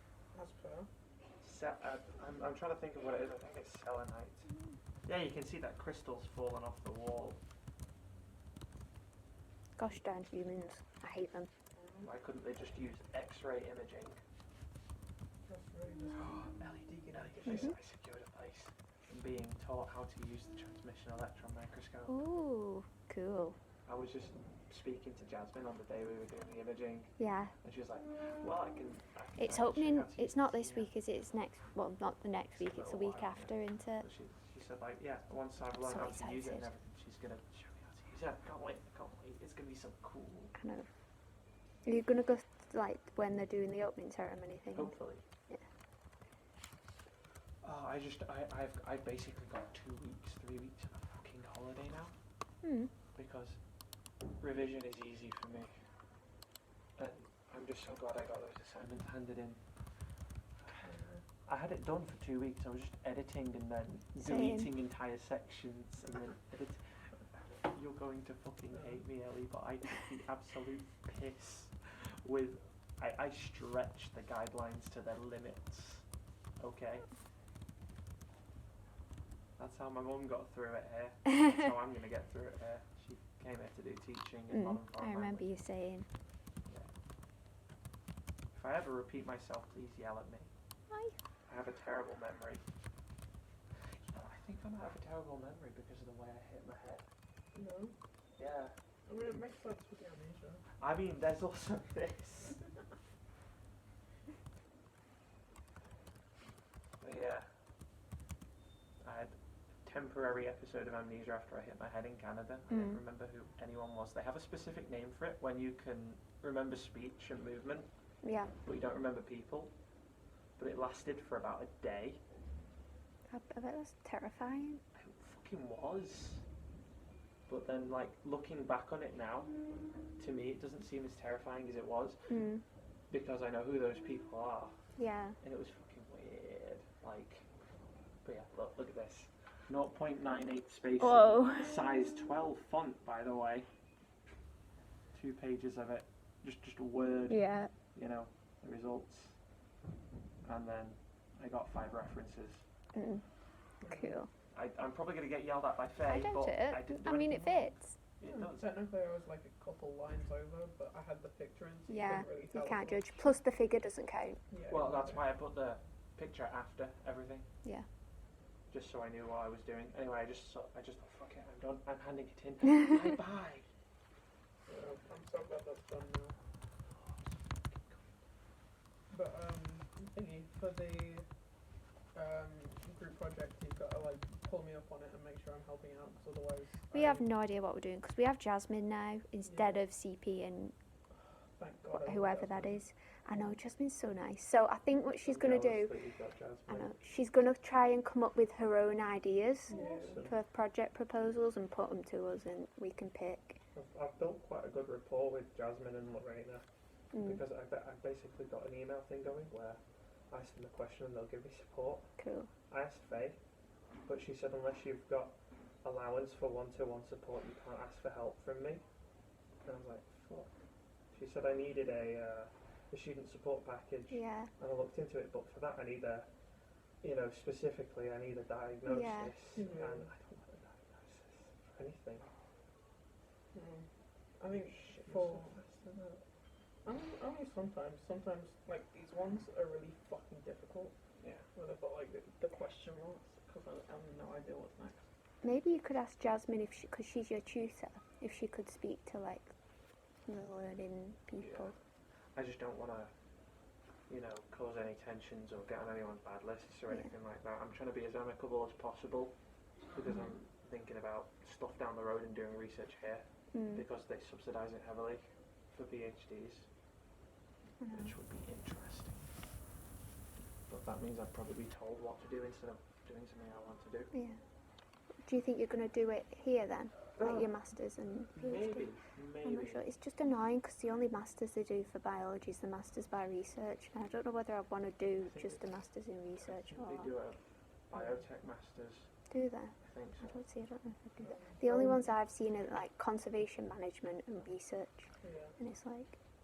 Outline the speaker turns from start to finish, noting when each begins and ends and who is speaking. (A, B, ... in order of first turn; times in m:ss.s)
0:00.3-0:00.9 A
0:01.4-0:04.5 B
0:05.1-0:07.4 B
0:09.8-0:11.5 C
0:11.8-0:12.1 A
0:12.0-0:14.2 B
0:15.5-0:17.7 A
0:16.2-0:16.5 B
0:17.1-0:22.2 B
0:17.5-0:17.7 C
0:22.1-0:23.6 C
0:23.9-0:30.9 B
0:27.2-0:27.5 C
0:29.4-0:34.1 C
0:32.6-0:40.6 B
0:35.8-0:36.7 C
0:40.5-0:40.9 C
0:41.8-0:45.0 C
0:44.7-0:45.2 B
0:47.6-0:52.1 B
0:52.6-0:52.9 C
0:53.2-0:53.6 B
0:54.4-0:55.7 B
0:57.0-0:59.6 B
1:00.8-1:01.2 A
1:01.5-1:16.0 B
1:04.2-1:04.7 C
1:16.6-1:17.1 B
1:19.6-1:25.5 B
1:24.5-1:26.1 C
1:28.5-1:30.5 B
1:30.9-1:31.2 C
1:31.5-1:32.6 B
1:34.0-1:37.0 B
1:37.5-1:37.9 A
1:38.4-1:38.7 B
1:39.1-1:40.6 A
1:40.8-1:42.6 B
1:47.0-1:47.5 B
1:49.0-1:57.9 B
1:52.7-1:53.0 C
1:58.2-1:58.6 C
1:58.6-1:59.7 B
2:00.6-2:02.2 B
2:03.3-2:04.8 C
2:05.0-2:06.4 B
2:07.5-2:09.5 B
2:10.2-2:12.2 B
2:12.3-2:12.6 C
2:13.1-2:14.8 B
2:15.0-2:15.4 C
2:15.4-2:17.5 B
2:18.2-2:23.7 B
2:21.0-2:21.8 C
2:25.1-2:29.4 B
2:27.3-2:27.7 C
2:30.4-2:32.6 B
2:32.9-2:33.2 C
2:33.8-2:34.2 A
2:33.9-2:34.3 C
2:34.5-2:38.7 B
2:36.0-2:38.0 C
2:38.2-2:43.4 A
2:41.9-2:44.4 C
2:44.5-2:45.3 A
2:44.7-2:47.5 B
2:48.7-2:53.7 B
2:54.7-2:56.4 A
2:56.9-2:58.1 B
2:59.1-3:01.3 A
3:02.1-3:07.3 A
3:06.9-3:10.8 C
3:09.5-3:09.8 A
3:11.6-3:12.8 A
3:11.9-3:16.0 C
3:15.2-3:17.0 B
3:16.7-3:23.6 C
3:19.7-3:20.2 A
3:19.7-3:20.4 B
3:23.8-3:26.6 B
3:27.1-3:27.4 C
3:27.2-3:29.8 B
3:30.3-3:32.1 B
3:32.2-3:32.5 C
3:32.7-3:33.4 B
3:34.1-3:38.8 B
3:39.6-3:40.5 B
3:41.1-3:46.3 B
3:44.1-3:44.5 C
3:47.0-3:52.3 B
3:48.8-3:49.4 C
3:49.5-3:50.1 A
3:53.5-3:53.9 A
3:54.4-3:56.2 A
3:54.5-3:55.6 B
3:56.8-4:01.0 A
4:01.2-4:01.4 B
4:01.5-4:05.0 A
4:05.4-4:09.5 C
4:10.3-4:11.8 C
4:11.4-4:11.8 B
4:12.4-4:13.1 B
4:14.1-4:19.4 B
4:19.9-4:26.7 B
4:23.5-4:23.8 C
4:27.8-4:28.1 C
4:27.9-4:29.3 B
4:30.7-4:34.1 B
4:34.1-4:34.4 C
4:35.2-4:38.9 C
4:37.2-4:37.5 B
4:38.4-4:39.9 B
4:39.4-4:47.1 C
4:45.2-4:45.6 B
4:46.4-4:49.1 B
4:49.3-4:56.2 C
4:49.8-4:50.4 B
4:51.2-4:51.9 A
4:55.2-4:55.6 A